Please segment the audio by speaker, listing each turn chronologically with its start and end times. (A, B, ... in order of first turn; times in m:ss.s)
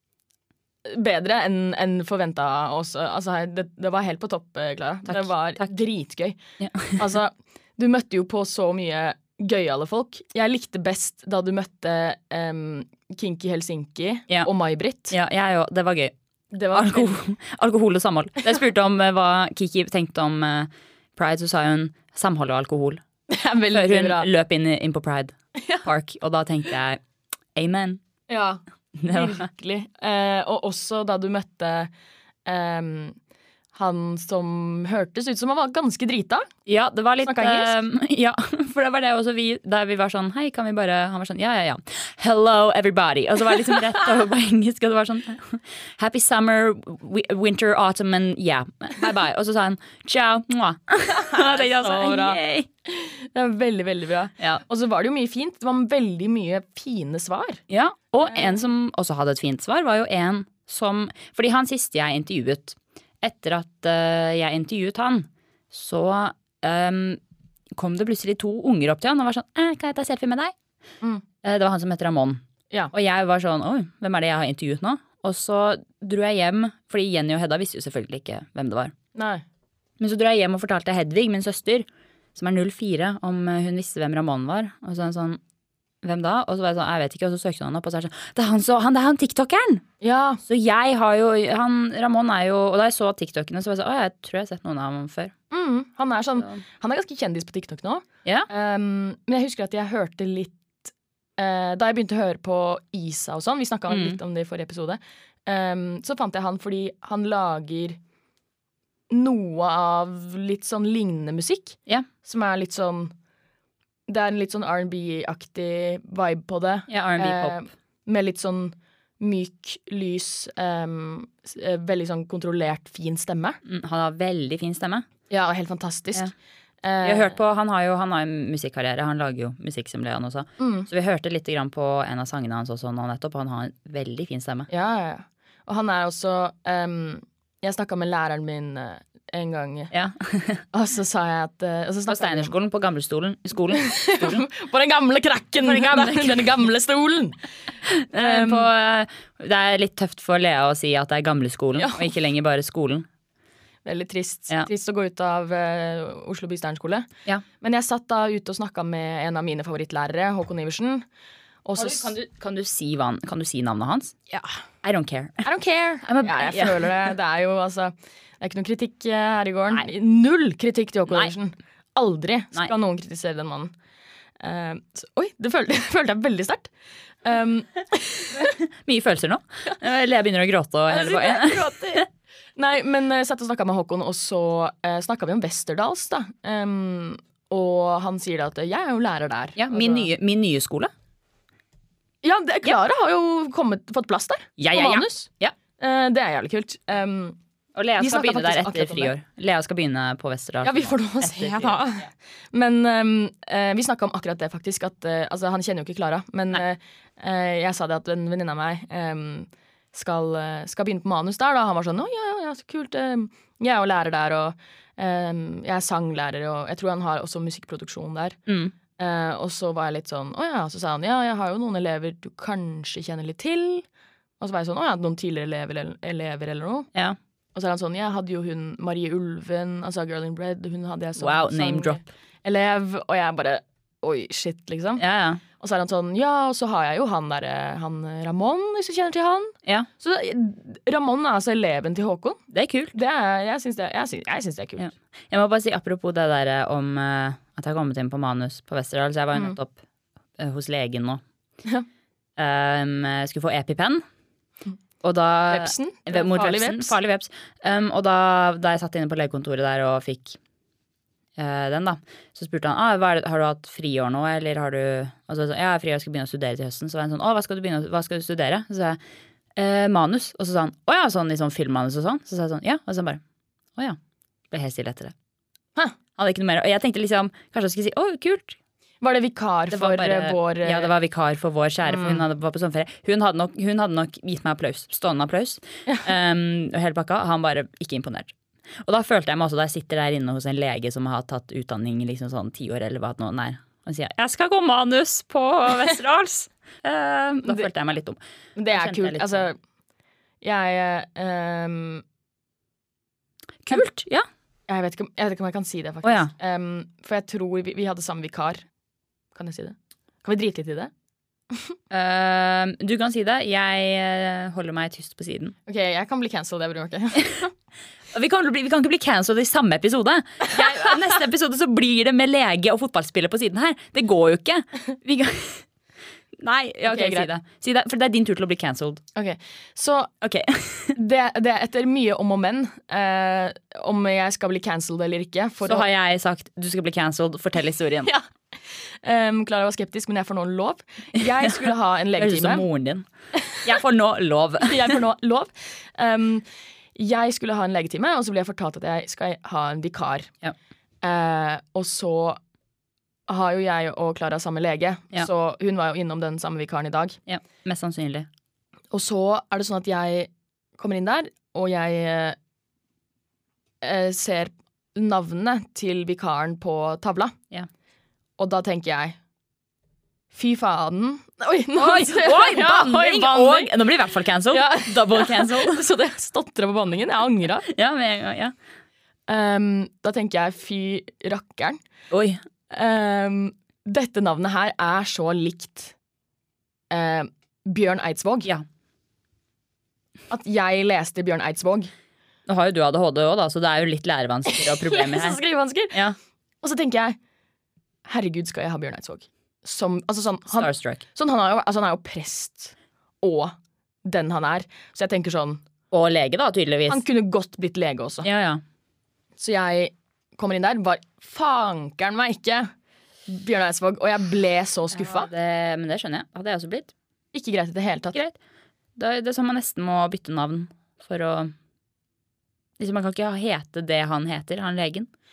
0:00.8-0:06.4 A
0:05.1-0:05.7 B
0:06.6-0:07.0 B
0:06.9-0:15.2 A
0:15.1-0:16.1 B
0:16.5-0:17.2 A
0:16.7-0:23.0 B
0:23.3-0:24.3 A
0:23.7-0:27.0 B
0:27.6-0:28.0 B
0:28.3-0:31.9 A
0:29.0-0:29.5 B
0:32.4-0:33.2 A
0:33.7-0:36.5 A
0:36.7-0:52.7 B
0:37.2-0:37.8 A
0:51.2-0:57.6 A
0:57.7-1:07.2 B
0:58.2-0:58.6 A
1:07.8-1:10.5 B
1:11.4-1:18.9 B
1:19.2-1:19.4 A
1:20.0-1:25.4 B
1:26.0-1:29.9 B
1:30.0-1:30.4 A
1:30.5-1:35.3 B
1:35.5-1:48.0 A
1:36.4-1:36.6 B
1:43.9-1:44.2 B
1:49.1-1:53.1 A
1:54.1-2:03.6 A
1:56.9-1:57.6 B
2:03.6-2:05.1 B
2:05.3-2:06.3 A
2:06.8-2:07.4 A
2:07.0-2:14.7 B
2:10.6-2:10.9 A
2:14.7-2:19.9 A
2:19.9-2:20.6 B
2:20.7-2:22.5 A
2:22.1-2:24.4 B
2:23.7-2:27.4 A
2:25.6-2:26.5 B
2:27.9-2:33.1 B
2:28.1-2:28.7 A
2:31.8-2:32.1 A
2:33.8-2:37.1 A
2:37.6-2:41.1 A
2:41.6-2:42.1 A
2:41.8-2:44.2 B
2:44.8-2:45.5 B
2:45.4-2:53.7 A
2:46.0-2:46.9 B
2:54.4-2:56.7 A
2:57.2-2:58.5 A
2:58.8-3:02.1 B
3:00.9-3:02.0 A
3:02.6-3:10.1 A
3:09.6-3:10.9 B
3:12.2-3:15.3 A
3:14.6-3:15.6 B
3:15.8-3:17.4 A
3:17.8-3:22.1 B
3:18.0-3:19.1 A
3:20.6-3:38.4 A
3:38.5-3:38.7 B
3:39.0-3:43.9 A
3:44.4-3:46.9 A
3:47.6-3:55.0 A
3:51.2-3:52.0 B
3:55.0-3:55.4 B
3:55.6-4:02.4 A
4:02.5-4:03.0 B
4:02.9-4:04.9 A
4:04.8-4:09.8 B
4:09.3-4:09.6 A
4:10.4-4:11.2 B
4:12.4-4:14.0 B
4:15.0-4:20.4 B
4:15.5-4:17.0 A
4:21.4-4:29.0 B
4:29.6-4:33.2 B
4:34.5-4:35.1 B
4:36.2-4:38.6 B
4:39.0-4:40.9 A
4:39.7-4:48.3 B
4:41.8-4:42.2 A
4:48.8-4:59.5 B
4:57.4-4:57.7 A
4:58.6-4:59.6 A
5:00.4-5:02.0 A
5:03.7-5:04.3 B
5:04.7-5:08.7 A
5:06.0-5:06.3 B
5:09.3-5:10.9 A
5:11.9-5:15.6 B
5:15.7-5:17.5 A
5:18.1-5:25.6 B
5:26.4-5:29.0 B
5:26.9-5:27.3 A
5:29.2-5:30.1 A
5:30.2-5:31.0 B
5:31.0-5:35.9 A
5:35.6-5:38.1 B
5:38.1-5:42.6 A
5:41.2-5:41.5 B
5:42.2-5:45.0 B
5:44.6-5:50.3 A
5:51.0-5:52.4 A
5:53.3-5:57.2 A
5:57.3-5:58.3 B
5:58.9-6:02.4 A
6:03.8-6:07.4 A
6:08.4-6:09.2 A
6:10.3-6:13.8 A
6:11.8-6:15.8 B
6:14.5-6:17.7 A
6:17.7-6:18.5 B
6:19.3-6:21.8 A
6:22.1-6:22.4 B
6:22.7-6:25.9 A
6:26.9-6:28.5 A
6:30.3-6:31.9 A
6:32.5-6:36.2 B
6:34.5-6:36.0 A
6:36.6-6:37.2 A
6:38.1-6:45.6 A
6:40.5-6:41.0 B
6:45.9-6:47.0 B
6:46.9-6:48.3 A
6:48.2-6:48.6 B
6:49.4-6:52.7 A
6:53.3-6:55.3 A
6:54.9-6:56.9 B
6:57.3-6:58.2 A
6:59.0-7:01.5 B
7:02.8-7:05.1 B